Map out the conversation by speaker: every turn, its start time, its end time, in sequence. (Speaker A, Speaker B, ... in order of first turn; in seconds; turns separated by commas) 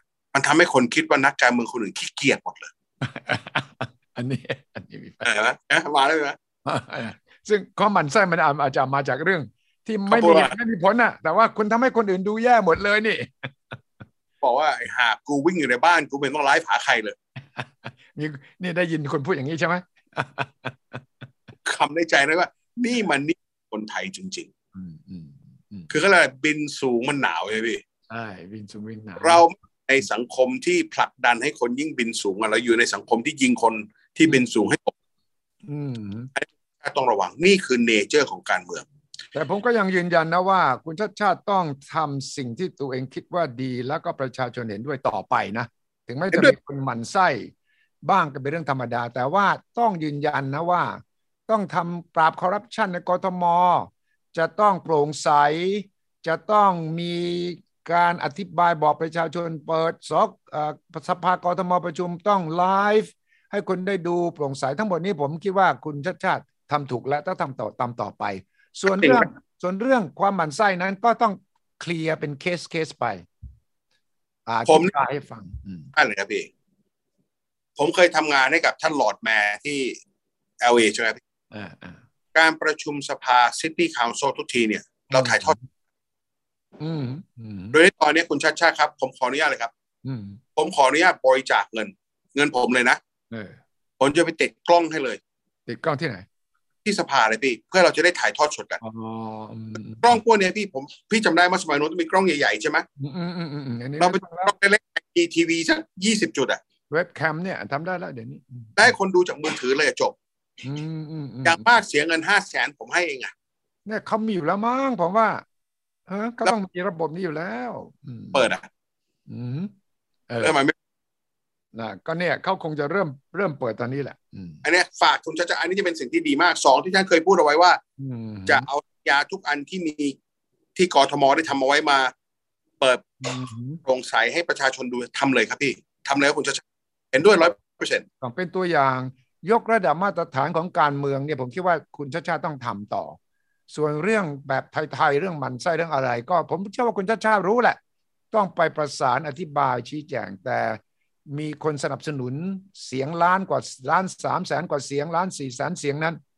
Speaker A: 0.3-2.7, Speaker B: 3.0-5.3, Speaker A: 5.2-6.4, Speaker B: 6.7-13.8, Speaker A: 10.1-10.5, Speaker A: 14.4-17.2, Speaker B: 17.6-21.0, Speaker A: 21.6-24.5, Speaker B: 24.8-25.9, Speaker A: 25.9-27.8, Speaker B: 28.1-29.4, Speaker A: 29.2-34.9, Speaker B: 35.6-36.3, Speaker A: 36.4-38.9, Speaker B: 39.3-47.5, Speaker B: 48.0-73.3, Speaker A: 68.9-69.3, Speaker B: 74.5-75.9, Speaker A: 76.0-76.5, Speaker A: 77.8-80.0, Speaker A: 80.6-81.2, Speaker B: 81.5-82.0, Speaker A: 82.3-85.6, Speaker B: 85.1-85.7, Speaker B: 86.8-87.8, Speaker A: 87.7-89.7, Speaker B: 90.0-90.4, Speaker A: 90.6-93.0, Speaker B: 93.3-93.6, Speaker A: 94.0-95.2, Speaker B: 95.7-96.2, Speaker A: 96.8-98.8, Speaker B: 98.8-100.2, Speaker A: 100.0-102.8, Speaker B: 103.0-104.5, Speaker A: 104.0-106.6, Speaker B: 106.9-108.9, Speaker A: 108.8-110.2, Speaker B: 110.6-111.8, Speaker A: 111.4-113.3, Speaker B: 113.9-115.4, Speaker B: 116.1-118.5, Speaker A: 118.3-118.7, Speaker B: 119.3-119.7, Speaker B: 120.3-120.6, Speaker A: 120.4-120.8, Speaker B: 121.7-124.6, Speaker A: 124.6-127.8, Speaker B: 128.0-128.7, Speaker A: 128.5-130.2, Speaker A: 130.8-132.1, Speaker A: 132.8-133.2, Speaker B: 133.2-133.8, Speaker A: 133.8-138.1, Speaker B: 138.2-143.2, Speaker B: 143.7-147.8, Speaker B: 148.3-150.8, Speaker B: 151.3-156.2